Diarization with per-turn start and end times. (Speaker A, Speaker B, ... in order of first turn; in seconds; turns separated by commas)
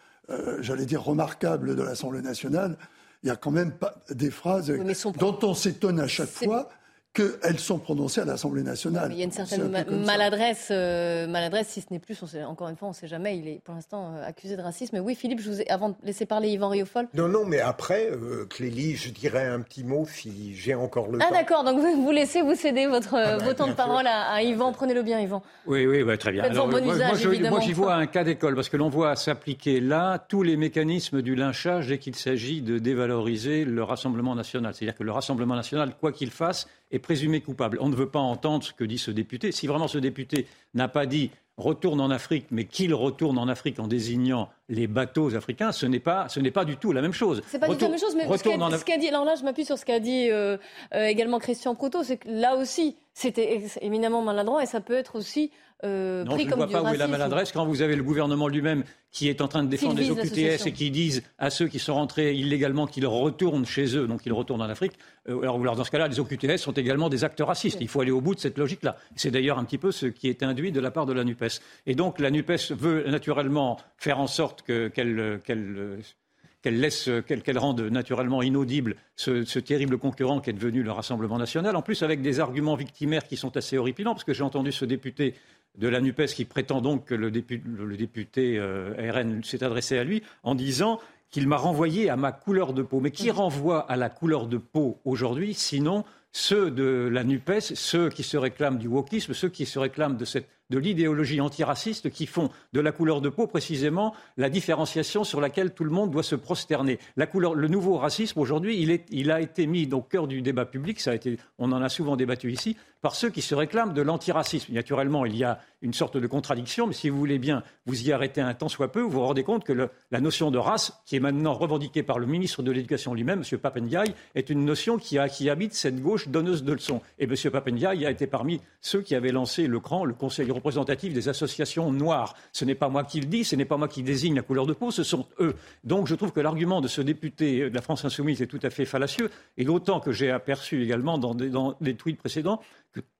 Speaker A: 0.3-10.3, Speaker B: 4.8-5.3, Speaker B: 6.2-6.5, Speaker B: 9.0-17.1, Speaker C: 17.1-21.5, Speaker B: 21.2-25.4, Speaker C: 23.2-24.0, Speaker D: 25.6-48.9, Speaker B: 26.4-27.9, Speaker B: 47.5-57.4, Speaker D: 56.2-76.1, Speaker B: 59.8-60.7, Speaker D: 76.6-143.0